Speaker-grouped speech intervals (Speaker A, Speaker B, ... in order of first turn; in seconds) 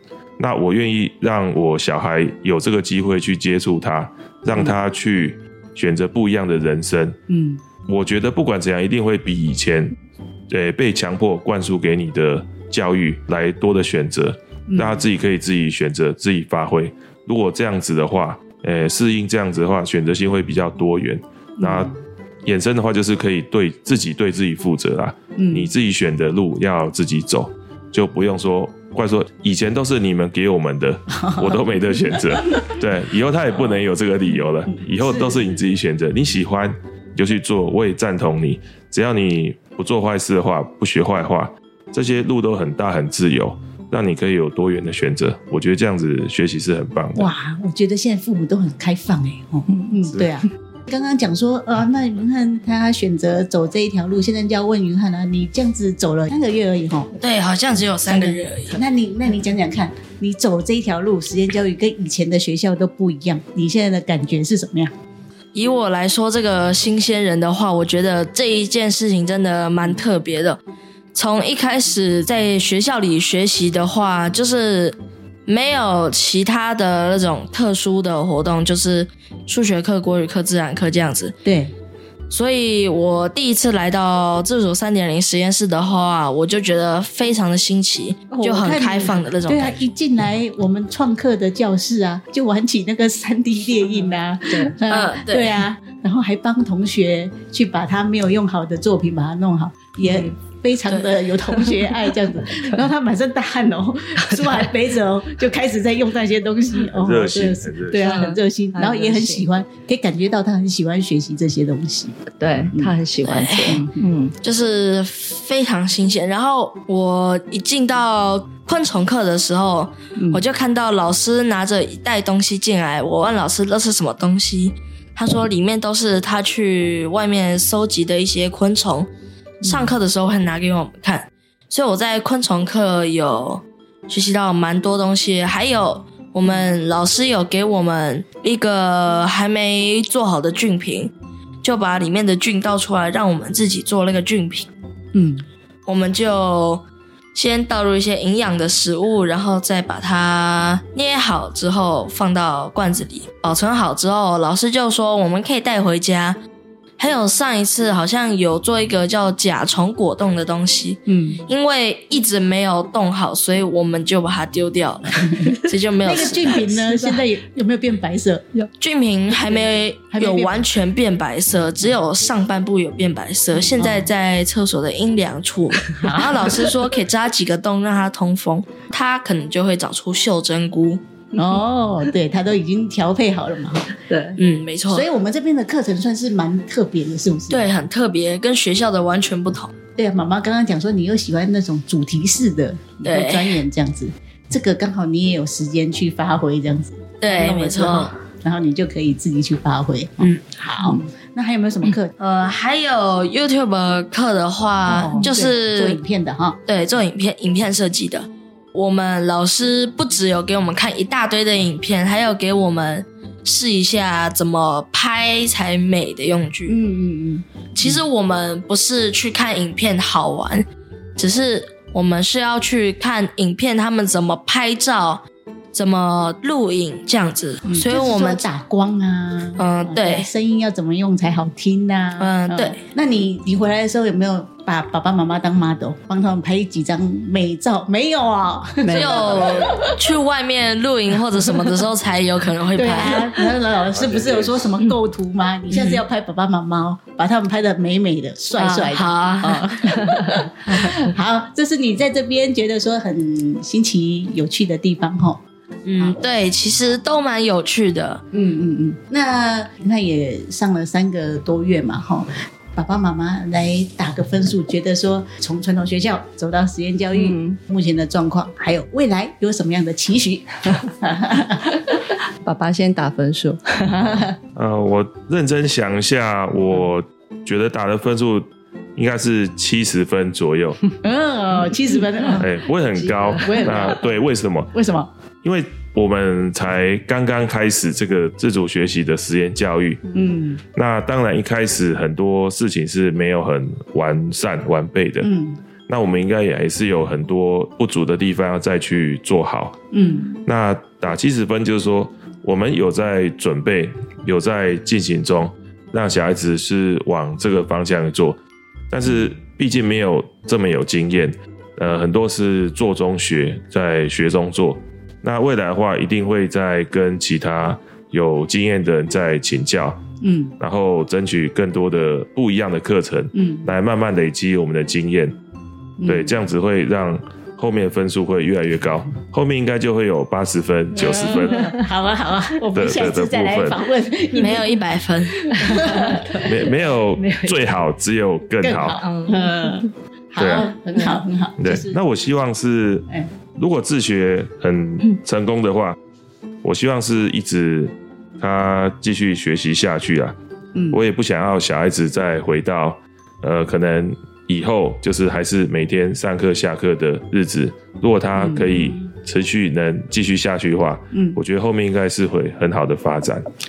Speaker A: 0.4-7.2, 7.9-9.9, 10.5-21.9, 22.4-47.3, 106.9-108.2, 243.8-244.8, 274.6-280.9, 282.4-284.7, 285.4-290.1, 290.7-295.3, 295.9-299.8, 300.5-308.4, 308.9-320.0, 320.6-325.4, 326.0-331.7, 332.7-333.9, 336.4-339.0, 340.4-340.7, 341.6-346.0, 346.6-350.4, 350.9-363.5
Speaker B: 7.3-7.6, 14.7-15.0, 21.6-21.9, 25.4-25.7, 31.1-31.6, 32.3-32.6, 34.3-35.6, 47.1-57.1, 58.0-64.9, 81.5-81.7, 88.3-113.0, 120.2-120.4, 129.6-129.9, 145.1-145.4, 161.1-161.4, 165.4-168.6, 169.3-170.7, 173.7-174.1, 176.0-176.3, 181.4-183.9, 184.9-187.7, 190.0-202.1, 204.9-206.6, 216.7-218.0, 227.7-239.9, 242.8-255.4, 258.3-271.6, 273.9-274.4, 281.0-284.2, 284.7-285.1, 290.1-290.6, 295.2-295.6, 299.9-300.4, 320.2-320.5, 323.4-323.7, 326.0-326.4, 330.9-334.8, 335.6-336.6, 338.6-342.0, 350.8-351.0, 358.4-359.0, 361.1-361.4
Speaker C: 57.1-58.8, 65.5-70.6, 71.1-81.3, 82.3-89.8, 94.9-95.6, 100.9-101.2, 113.2-113.8, 114.4-129.1, 129.6-141.1, 141.6-144.7, 145.8-156.4, 157.0-166.8, 168.8-181.0, 184.3-185.1, 187.5-189.7, 193.0-193.6, 197.2-198.1, 202.2-206.0, 206.7-216.8, 217.8-220.7, 221.2-228.4, 229.6-230.3, 232.2-232.8, 238.9-243.3, 248.6-250.1, 255.8-258.2, 334.4-335.4
Speaker D: 104.2-104.7, 108.0-109.5, 112.4-114.3, 267.1-267.6, 272.4-273.9